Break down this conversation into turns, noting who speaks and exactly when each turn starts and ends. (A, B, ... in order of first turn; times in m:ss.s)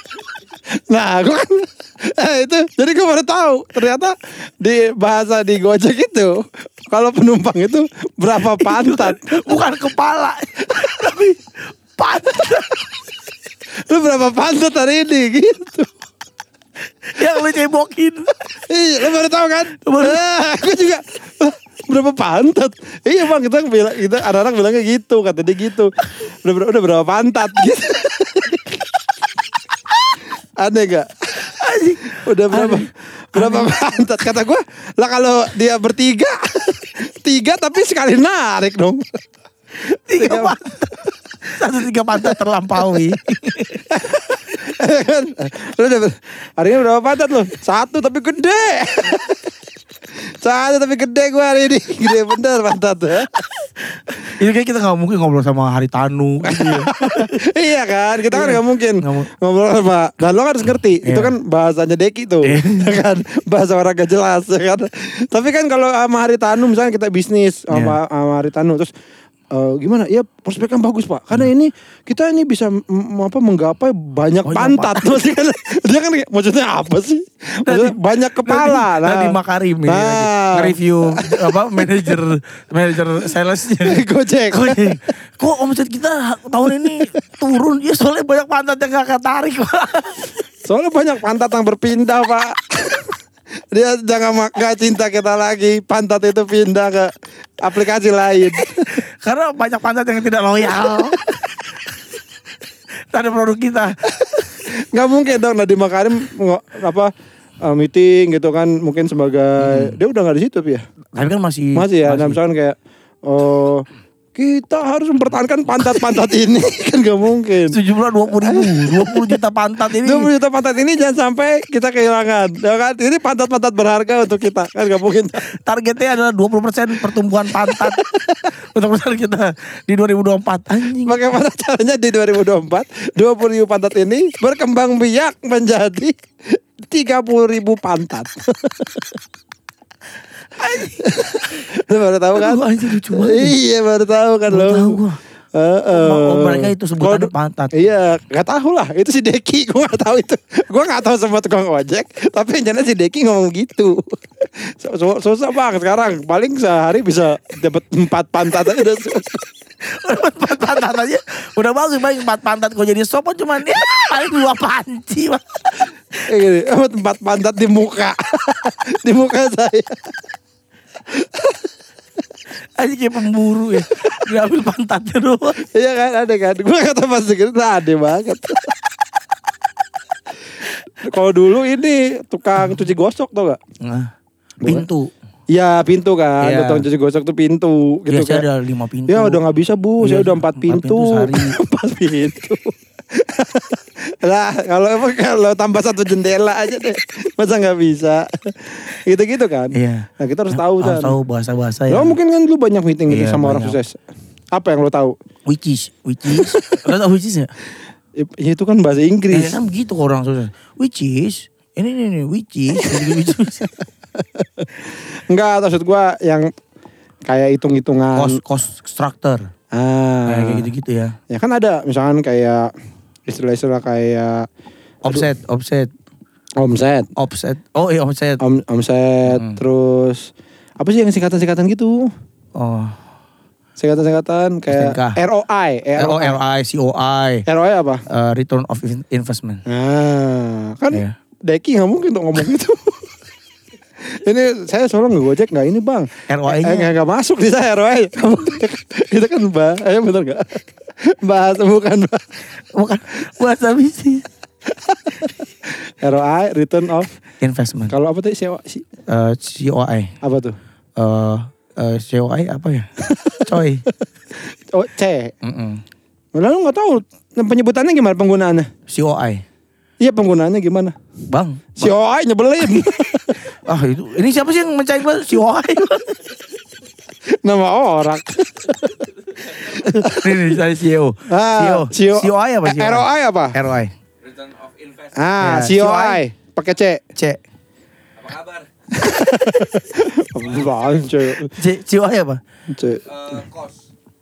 0:00.7-0:09.5 A
0:08.5-0:13.0 B
0:13.9-0:15.9 A
0:17.0-0:18.4 B
0:18.7-0:28.8 A
0:19.8-0:20.2 B
0:30.6-0:31.2 A
0:31.4-0:33.8 B
0:32.0-0:39.1 A
0:39.9-0:40.6 A
0:40.1-0:43.9 B
0:44.0-0:49.4 A
0:50.3-0:53.4 A
0:54.1-0:57.3 B
0:56.4-1:08.9 A
0:58.3-0:59.3 B
1:01.0-1:01.3 B
1:02.4-1:03.0 B
1:07.7-1:08.0 B
1:09.5-1:21.9 A
1:14.4-1:15.3 B
1:17.7-1:30.3 B
1:23.8-1:25.1 A
1:30.7-1:33.1 A
1:33.7-1:39.0 A
1:38.8-1:41.8 B
1:43.1-1:44.7 B
1:44.9-1:47.1 A
1:47.6-1:50.8 A
1:49.6-1:50.0 B
1:51.1-1:52.4 B
1:51.8-1:57.8 A
1:57.7-2:00.3 B
1:58.4-1:59.3 A
1:59.9-2:05.5 A
2:05.6-2:08.0 B
2:07.6-2:08.1 A
2:08.7-2:11.2 B
2:11.0-2:16.1 A
2:16.8-2:19.1 A
2:20.6-2:21.0 B
2:20.8-2:25.0 A
2:22.3-2:23.6 B
2:24.5-2:25.2 B
2:25.6-2:39.4 A
2:25.9-2:27.8 B
2:39.8-2:45.9 B
2:46.2-2:50.1 A
2:51.1-2:51.5 A
2:52.8-2:55.6 B
2:55.6-2:58.8 A
3:01.0-3:03.6 A
3:03.8-3:04.1 B
3:04.6-3:05.1 B
3:05.5-3:08.4 A
3:06.4-3:06.8 B
3:08.1-3:09.4 B
3:09.1-3:21.1 A
3:10.0-3:11.6 B
3:19.7-3:22.2 B
3:21.9-3:24.0 A
3:23.1-3:23.8 B
3:24.5-3:25.1 A
3:25.5-3:27.5 B
3:26.3-3:26.8 A
3:28.2-3:29.6 A
3:29.3-3:33.8 B
3:34.2-3:36.5 A
3:37.2-3:38.4 A
3:38.2-3:39.5 B
3:39.7-3:40.7 A
3:40.3-3:41.2 B
3:41.3-3:42.7 A
3:43.3-3:44.5 A
3:45.0-3:45.9 B
3:46.6-3:47.1 A
3:47.2-3:48.4 B
3:48.4-3:52.1 A
3:49.3-3:49.6 B
3:52.6-3:53.0 B
3:53.8-3:56.4 A
3:54.7-3:55.2 B
3:56.0-3:57.5 B
3:57.5-3:58.0 A
3:58.1-3:59.6 B
3:59.7-4:03.0 A
4:04.0-4:12.2 A
4:06.3-4:06.9 B
4:12.7-4:14.2 B
4:14.7-4:17.1 A
4:17.4-4:17.9 B
4:17.9-4:18.9 A
4:19.1-4:20.1 B
4:20.2-4:20.6 A
4:21.0-4:22.9 B
4:23.2-4:23.5 A
4:23.4-4:23.8 B
4:24.7-4:25.3 A
4:25.4-4:25.8 B
4:26.4-4:28.7 A
4:28.9-4:29.4 B
4:30.0-4:31.0 A
4:31.3-4:31.9 B
4:31.8-4:33.4 A
4:32.6-4:32.9 B
4:33.6-4:36.2 B
4:37.4-4:40.3 A
4:39.8-4:43.9 B
4:41.3-4:43.6 A
4:44.2-4:45.1 C
4:45.1-4:47.0 A
4:45.4-4:46.2 B
4:48.2-4:48.7 C
4:48.9-4:51.5 A
4:51.4-4:52.4 B
4:52.7-4:53.4 A
4:53.1-4:53.8 C